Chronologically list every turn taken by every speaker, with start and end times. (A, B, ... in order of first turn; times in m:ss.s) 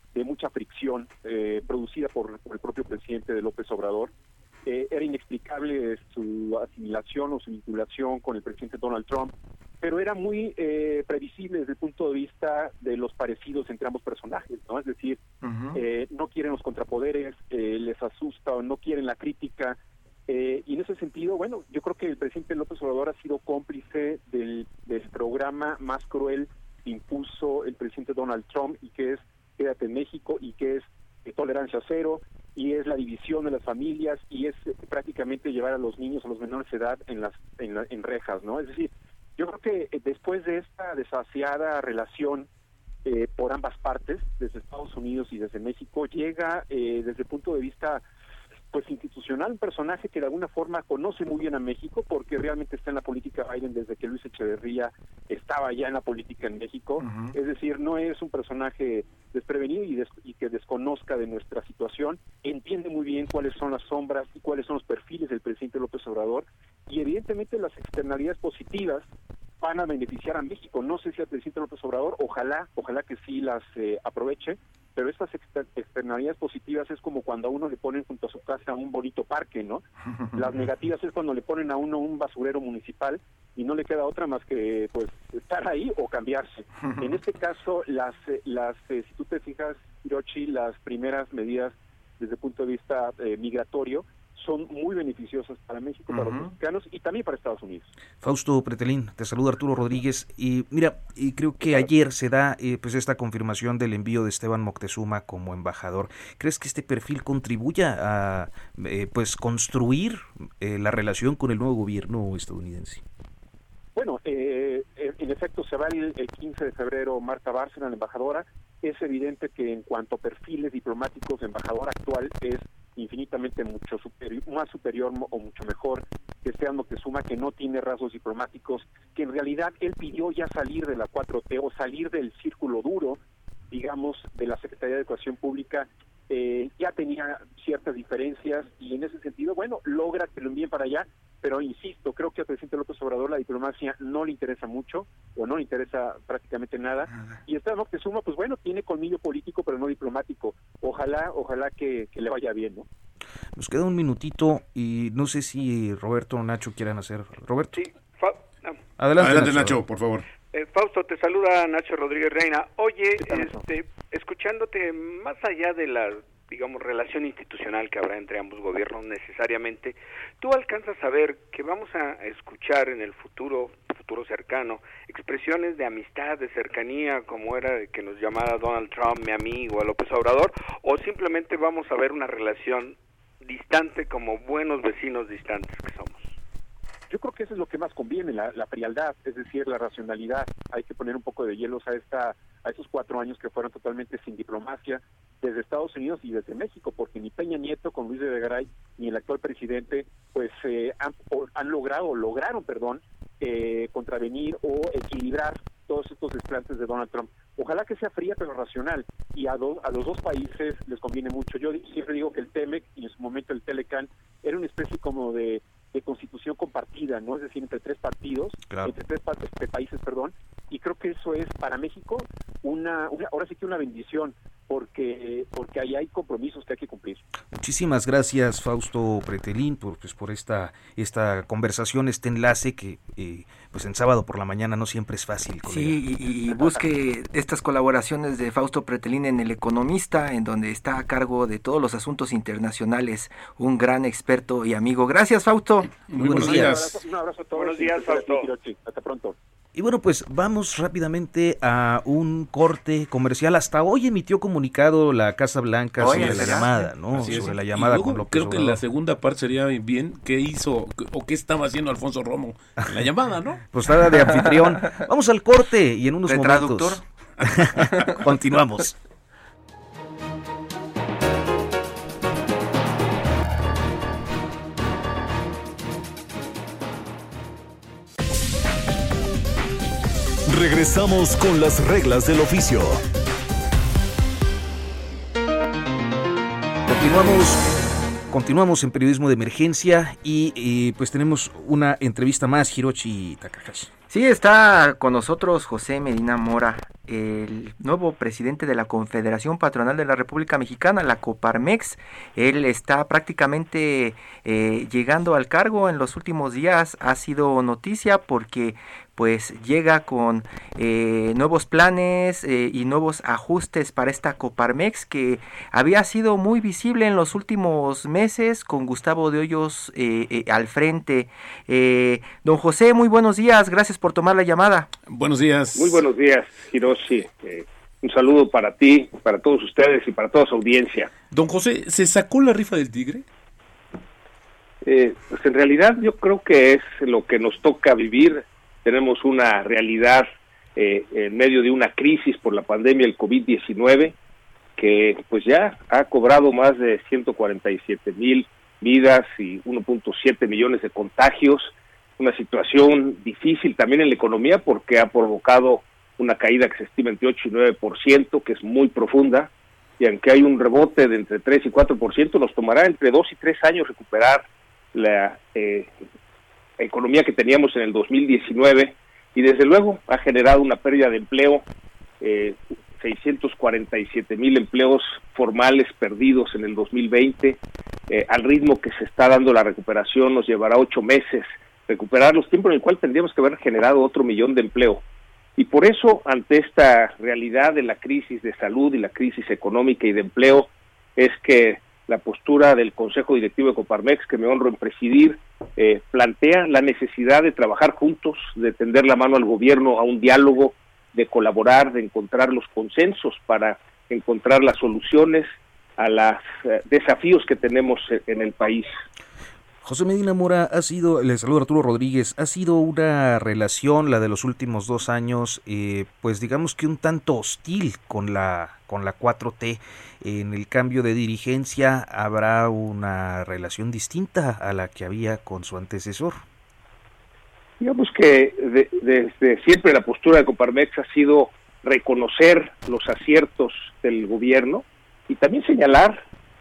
0:00.1-0:04.1 A
0:04.6-0:15.2 A
0:15.4-0:15.8 B
0:15.7-0:19.8 A
0:20.3-0:42.5 A
0:43.0-0:48.0 A
0:48.7-1:09.0 A
0:57.0-0:57.3 B
1:09.6-1:37.9 A
1:26.8-1:27.1 B
1:36.1-1:36.5 B
1:38.2-1:53.0 C
1:53.9-2:13.2 A
2:13.7-2:32.9 A
2:33.6-2:37.8 C
2:37.7-2:38.8 D
2:39.0-2:39.8 C
2:39.2-2:40.2 E
2:40.5-3:06.3 D
2:43.2-2:43.6 A
3:07.1-3:47.2 A
3:38.7-3:38.9 C
3:47.5-3:56.0 C
3:55.7-4:05.9 B
4:06.0-4:06.9 E
4:06.1-4:06.8 C
4:06.3-4:09.4 A
4:07.5-4:08.5 D
4:09.7-4:18.8 C
4:16.0-4:16.7 B
4:16.0-4:23.6 E
4:23.7-4:29.0 C
4:26.2-4:27.0 B
4:40.5-4:43.0 F
4:46.8-4:47.6 C
4:48.3-4:53.9 C
4:54.1-5:24.9 B
5:25.1-5:26.0 E
5:25.8-5:31.1 G
5:31.3-5:33.2 E
5:34.8-5:44.2 G
5:44.8-6:05.9 G
6:06.8-6:11.6 G
6:12.2-6:25.0 G
6:25.6-6:48.9 G
6:49.8-7:06.4 C
7:07.8-7:16.2 G